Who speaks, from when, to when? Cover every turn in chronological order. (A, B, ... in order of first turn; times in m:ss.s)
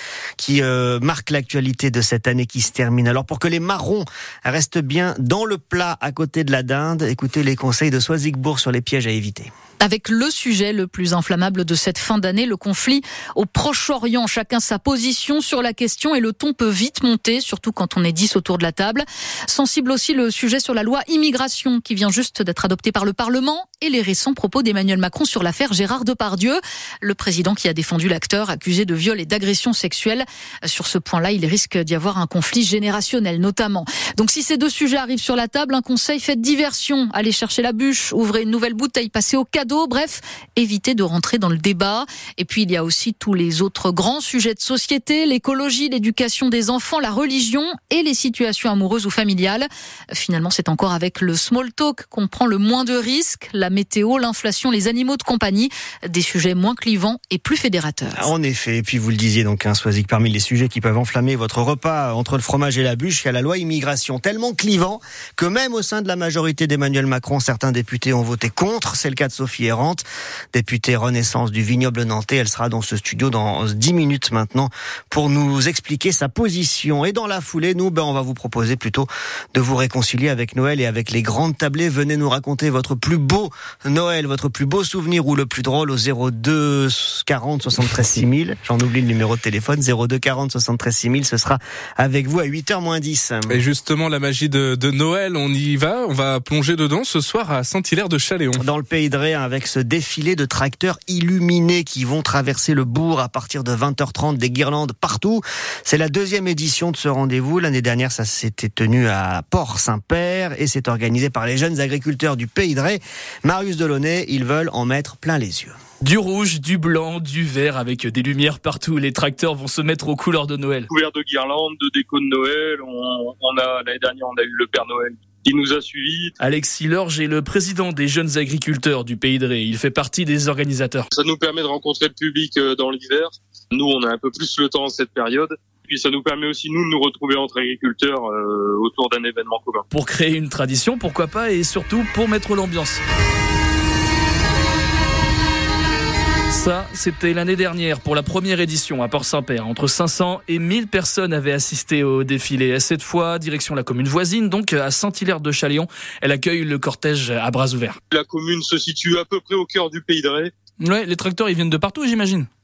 0:00.4-0:09.5 A
0:09.8-0:58.3 B
0:58.1-1:33.6 A
1:33.5-1:38.6 C
1:38.6-1:55.8 A
1:56.0-2:00.9 D
2:00.9-2:06.3 E
2:06.4-2:11.1 D
2:11.1-2:19.8 E
2:19.9-2:23.0 D
2:26.5-2:38.0 D
2:38.1-2:40.5 E
2:40.8-2:42.5 D